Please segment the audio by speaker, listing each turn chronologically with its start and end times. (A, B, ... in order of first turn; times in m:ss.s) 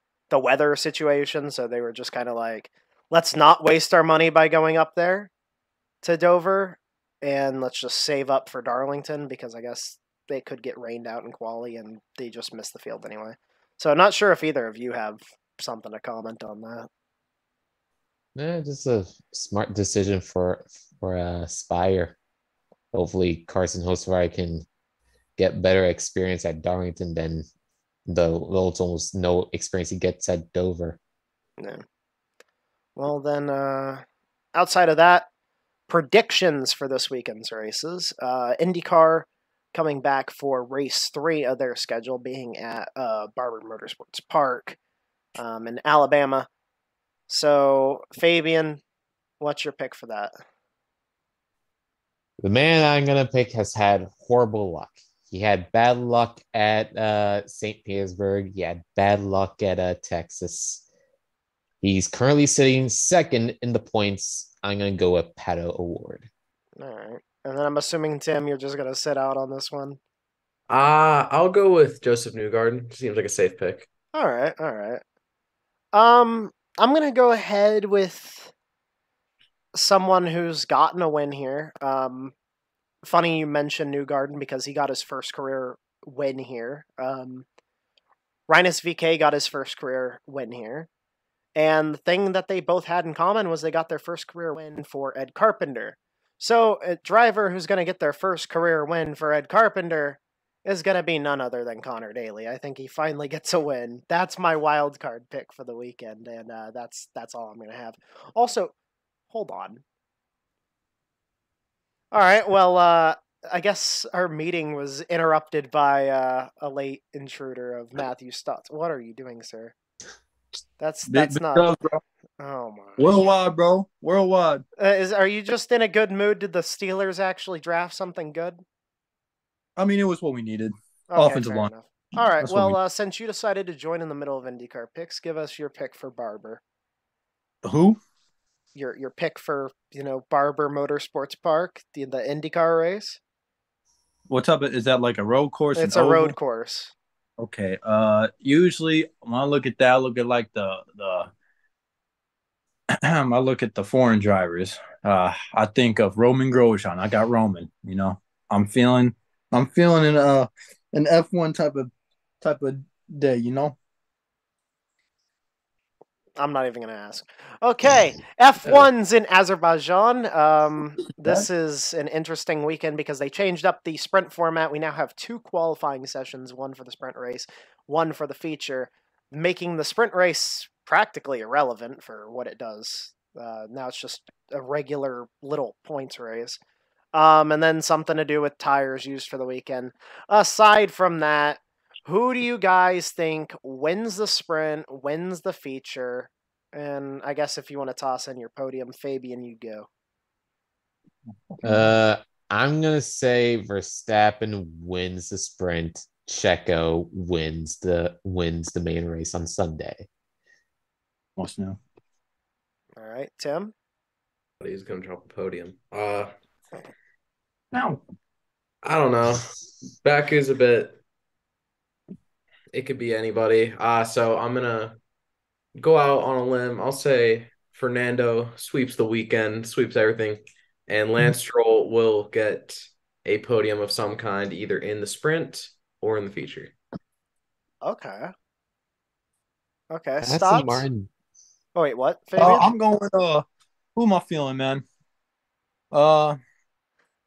0:00.3-0:05.3 A
0:06.0-0:16.9 A
0:18.4-0:22.2 B
0:22.9-0:24.7 B
0:25.4-0:27.5 B
0:28.1-0:31.0 B
0:33.0-0:34.0 A
0:34.6-0:35.3 A
0:35.9-0:44.8 A
0:45.4-0:46.5 A
0:47.3-0:48.8 A
0:49.4-0:50.3 A
0:52.4-1:00.8 B
1:01.8-1:06.3 B
1:06.8-1:10.0 A
1:10.7-1:13.9 C
1:14.1-1:15.0 A
1:15.9-1:18.5 A
1:19.7-1:22.3 A
1:23.0-1:27.5 A
1:28.5-1:30.9 A
1:31.6-1:48.7 A
1:49.3-1:49.8 A
1:52.1-1:59.7 A
2:00.8-2:01.7 A
2:01.1-2:02.0 D
2:02.4-2:03.2 A
2:03.0-2:04.6 D
2:04.8-2:08.6 A
2:09.8-2:11.7 D
2:11.1-2:16.6 A
2:12.4-2:12.8 D
2:17.6-2:18.0 D
2:18.8-2:23.2 A
2:24.3-2:26.4 D
2:25.8-2:26.9 A
2:27.4-2:31.3 D
2:32.9-2:43.8 D
2:46.4-3:06.6 A
3:07.1-3:19.9 A
3:21.5-3:21.9 D
3:21.6-3:30.1 B
3:31.4-3:31.8 D
3:33.0-3:33.7 A
3:34.6-3:36.3 C
3:37.7-3:38.0 D
3:38.8-3:39.5 C
3:40.0-3:41.0 C
3:42.7-3:45.0 C
3:45.8-3:56.8 C
3:57.8-3:58.3 A
3:59.9-4:00.8 A
4:00.2-4:01.1 B
4:01.8-4:02.7 A
4:02.4-4:04.8 D
4:05.9-4:06.4 D